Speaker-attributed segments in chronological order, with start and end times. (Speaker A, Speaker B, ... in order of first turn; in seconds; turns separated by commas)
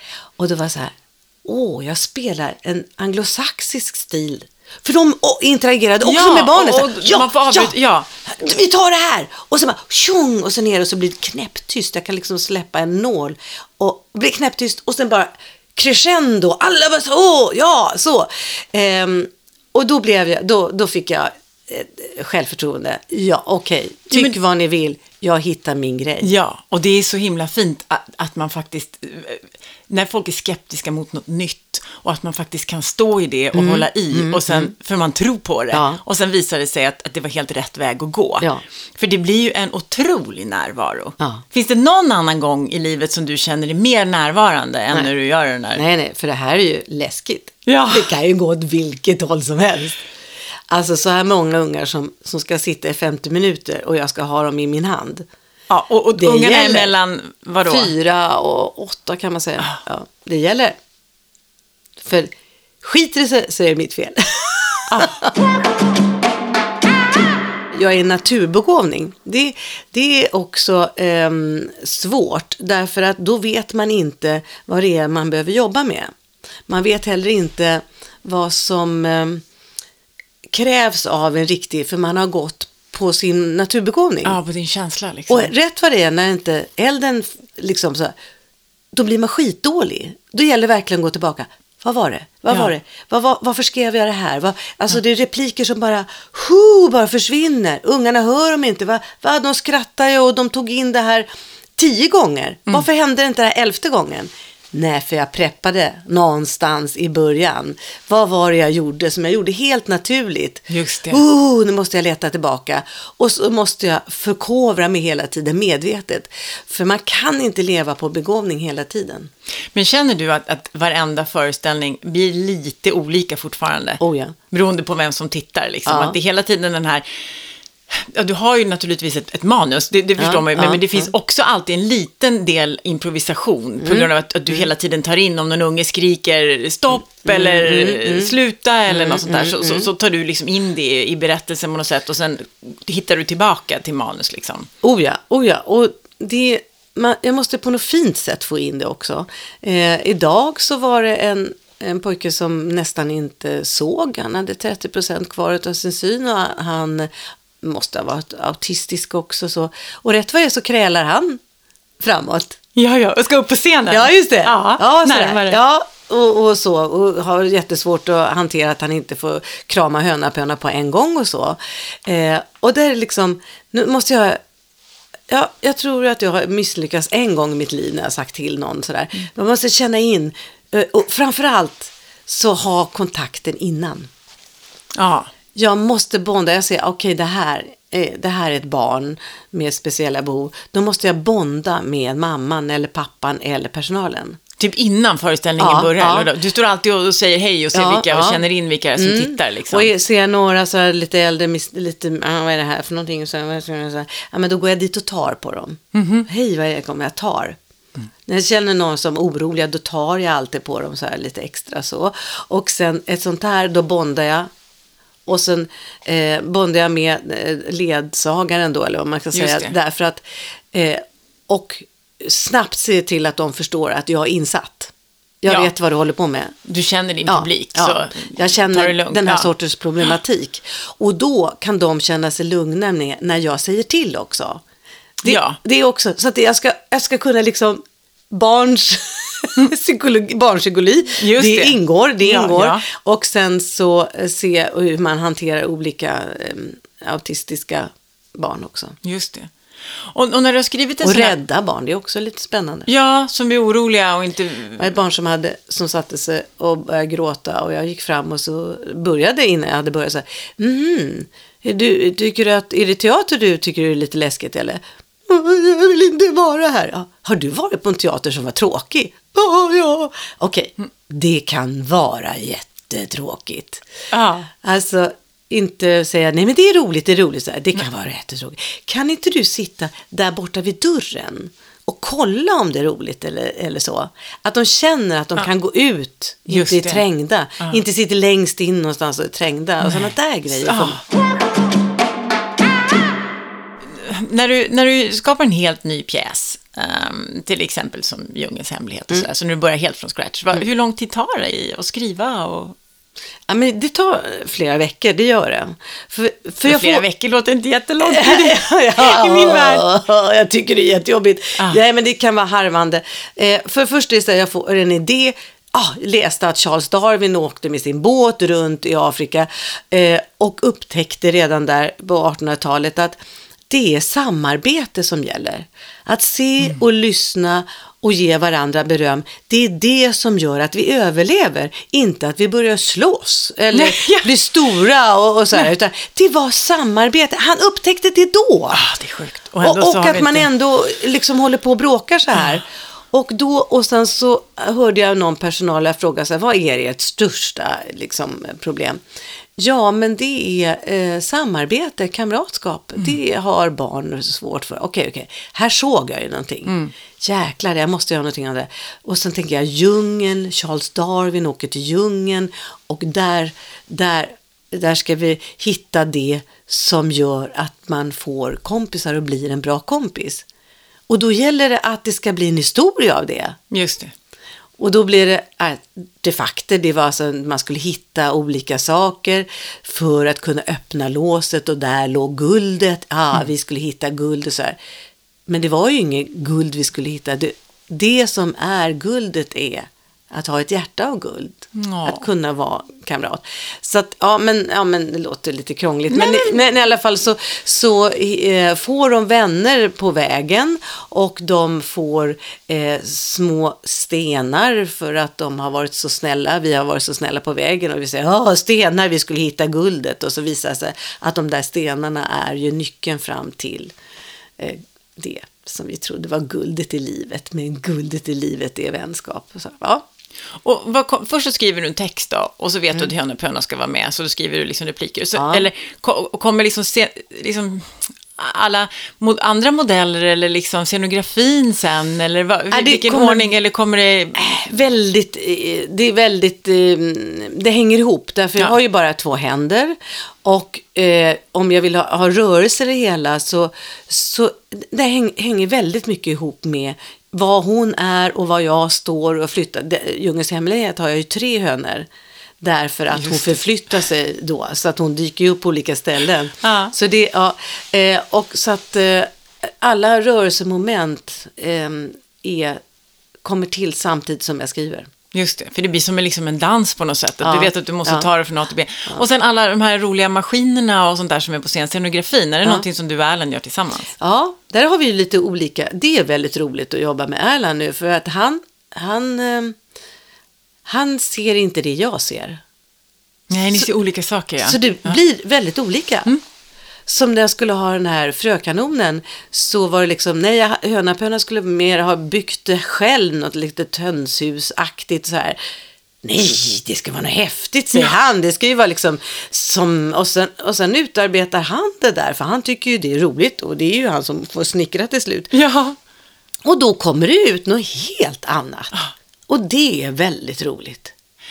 Speaker A: 0.4-7.7, Speaker B: 6.0-8.1, Speaker A: 8.2-26.3, Speaker B: 26.2-45.8, Speaker A: 33.5-34.7, Speaker A: 35.7-36.0, Speaker A: 45.7-50.0, Speaker B: 47.6-48.1, Speaker A: 50.7-55.2, Speaker B: 55.7-57.9, Speaker A: 56.1-56.9, Speaker A: 57.6-60.8, Speaker A: 62.0-62.3, Speaker A: 62.8-65.3, Speaker B: 64.9-65.2, Speaker A: 67.7-76.1, Speaker A: 76.7-79.4, Speaker A: 80.5-84.4, Speaker B: 84.2-85.5, Speaker A: 85.3-88.1, Speaker A: 88.9-119.3, Speaker B: 110.7-111.2, Speaker B: 119.7-127.2, Speaker A: 124.0-124.3, Speaker A: 125.8-126.1, Speaker B: 127.9-144.7, Speaker A: 130.2-131.1, Speaker A: 133.8-134.7, Speaker A: 137.2-138.3, Speaker A: 138.9-139.9, Speaker A: 144.8-161.4, Speaker A: 162.0-162.6, Speaker B: 162.8-165.6, Speaker A: 163.9-174.4, Speaker A: 175.3-184.1, Speaker B: 184.9-185.3, Speaker A: 185.5-194.4, Speaker B: 194.6-199.9, Speaker A: 195.6-196.3, Speaker A: 197.7-198.4, Speaker A: 199.0-207.6, Speaker B: 205.9-206.3, Speaker A: 208.2-214.5, Speaker A: 215.2-226.5, Speaker B: 219.3-219.7, Speaker B: 226.6-229.5, Speaker A: 227.3-234.6, Speaker A: 235.2-249.0, Speaker B: 235.2-235.6, Speaker B: 241.2-242.8, Speaker B: 249.0-251.3, Speaker A: 251.0-252.9, Speaker B: 252.9-254.9, Speaker A: 254.8-273.8, Speaker B: 274.1-274.5, Speaker A: 274.5-291.0, Speaker B: 286.5-287.0, Speaker B: 289.8-291.0, Speaker B: 293.9-302.8, Speaker A: 303.5-307.0, Speaker B: 306.6-309.8, Speaker A: 308.0-323.2, Speaker A: 323.7-338.8, Speaker B: 333.7-334.3, Speaker B: 338.7-340.5, Speaker A: 339.6-349.0, Speaker B: 342.3-342.6, Speaker A: 349.6-370.4, Speaker B: 356.6-356.9, Speaker A: 371.1-373.6, Speaker B: 373.7-374.1, Speaker A: 374.8-384.8, Speaker A: 385.5-413.9, Speaker B: 391.7-392.2, Speaker B: 396.1-396.6, Speaker A: 414.6-420.0, Speaker B: 420.6-434.4, Speaker A: 425.4-425.7, Speaker A: 432.7-433.5, Speaker A: 434.4-452.1, Speaker A: 452.6-462.8, Speaker B: 453.1-453.6, Speaker B: 456.6-456.9, Speaker A: 463.4-465.1, Speaker B: 465.3-474.1, Speaker A: 467.4-468.3, Speaker A: 474.2-479.8, Speaker A: 480.9-482.6, Speaker B: 483.5-485.2, Speaker A: 484.6-486.3, Speaker A: 487.1-495.6, Speaker A: 496.2-505.5, Speaker B: 505.5-505.9, Speaker A: 506.6-508.9, Speaker A: 509.5-511.1